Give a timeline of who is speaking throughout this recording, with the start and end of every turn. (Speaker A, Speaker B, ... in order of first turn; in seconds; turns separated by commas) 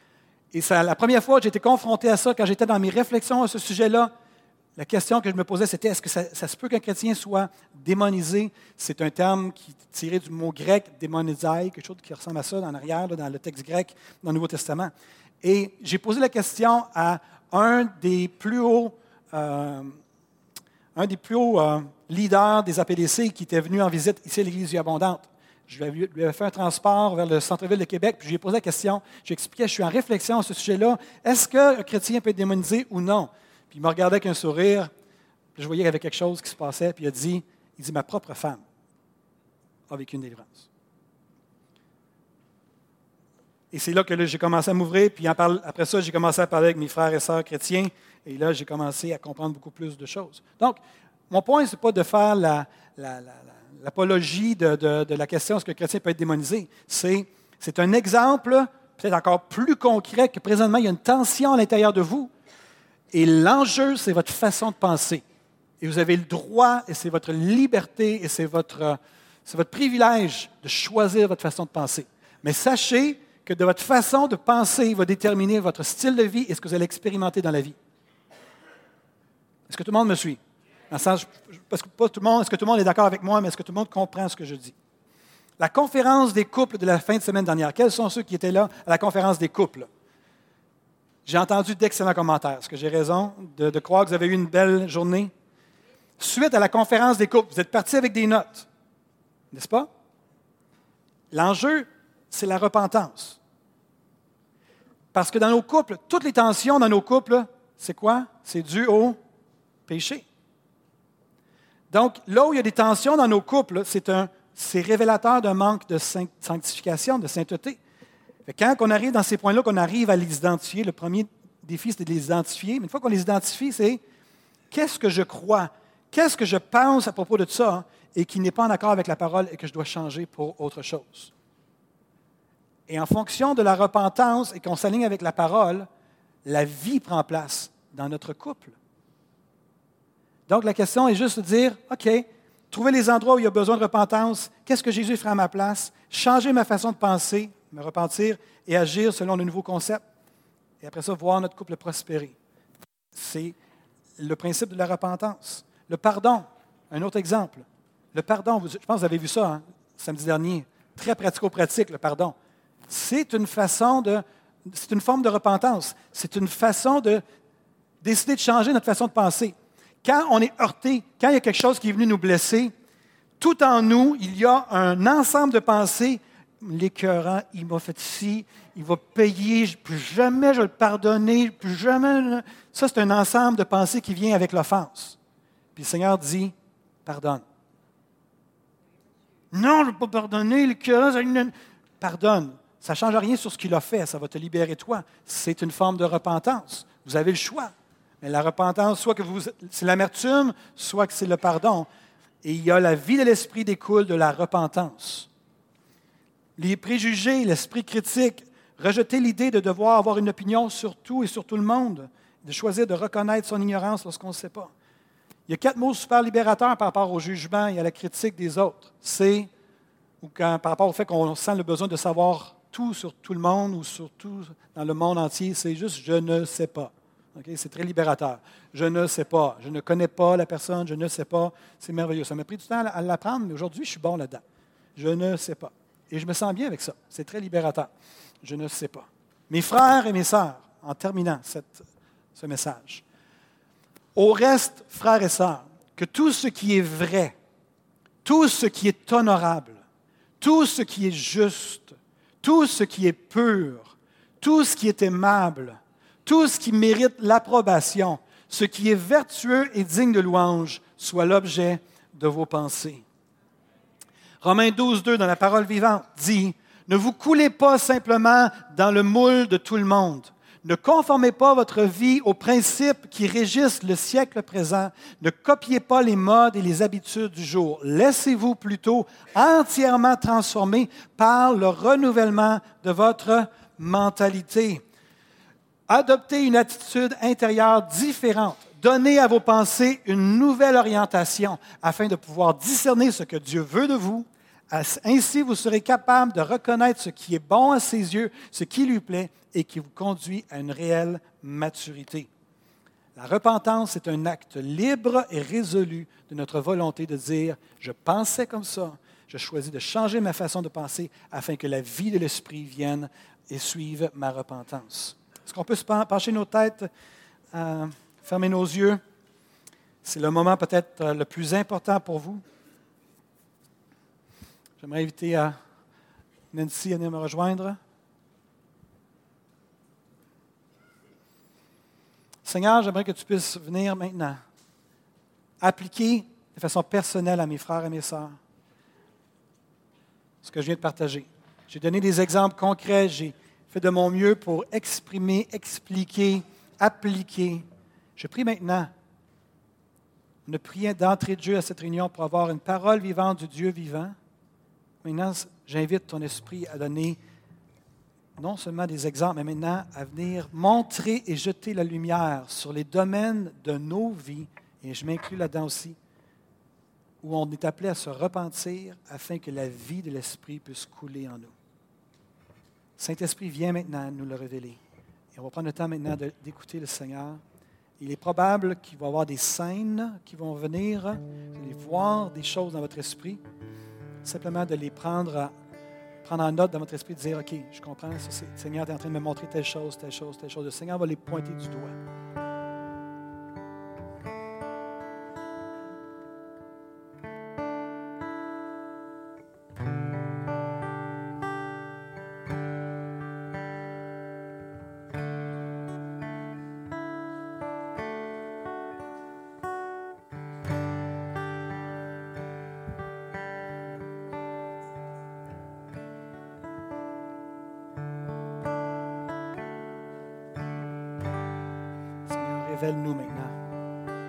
Speaker A: 0.5-4.1, Speaker A: 4.8-19.9, Speaker A: 20.9-34.9, Speaker A: 35.5-38.6, Speaker A: 39.9-40.7, Speaker A: 43.7-50.8, Speaker A: 51.3-62.3, Speaker A: 63.1-65.2, Speaker A: 65.8-77.8, Speaker A: 79.7-80.4, Speaker A: 80.9-84.7, Speaker A: 85.6-89.9, Speaker A: 91.2-95.3, Speaker A: 96.2-98.7, Speaker A: 99.5-99.9, Speaker A: 101.3-103.4, Speaker A: 105.1-109.2, Speaker A: 109.9-110.2, Speaker A: 111.9-117.8, Speaker A: 118.5-124.0, Speaker A: 124.7-131.3, Speaker A: 132.9-135.9, Speaker A: 136.4-138.8, Speaker A: 140.5-150.0, Speaker A: 150.8-152.3, Speaker A: 153.1-153.6, Speaker A: 154.2-162.3, Speaker A: 162.9-167.2, Speaker A: 168.0-172.7, Speaker A: 173.4-185.2, Speaker A: 185.7-186.5, Speaker A: 187.0-187.4, Speaker A: 189.5-201.9, Speaker A: 202.4-205.3, Speaker A: 206.6-214.7, Speaker A: 215.5-219.5, Speaker A: 220.2-234.4, Speaker A: 234.9-237.9, Speaker A: 238.4-243.0, Speaker A: 244.1-247.3, Speaker A: 248.2-249.8, Speaker A: 250.4-263.0, Speaker A: 264.4-284.8, Speaker A: 285.9-302.3, Speaker A: 303.1-316.9, Speaker A: 317.5-319.0, Speaker A: 320.0-322.4, Speaker A: 324.8-325.6, Speaker A: 326.5-327.8, Speaker A: 332.4-334.4, Speaker A: 335.6-338.3, Speaker A: 340.4-348.9, Speaker A: 350.5-354.1, Speaker A: 355.0-357.2, Speaker A: 358.4-366.0, Speaker A: 367.2-371.5, Speaker A: 373.0-374.8, Speaker A: 375.3-377.4, Speaker A: 378.0-383.4, Speaker A: 384.2-385.5, Speaker A: 386.2-391.9, Speaker A: 422.2-423.6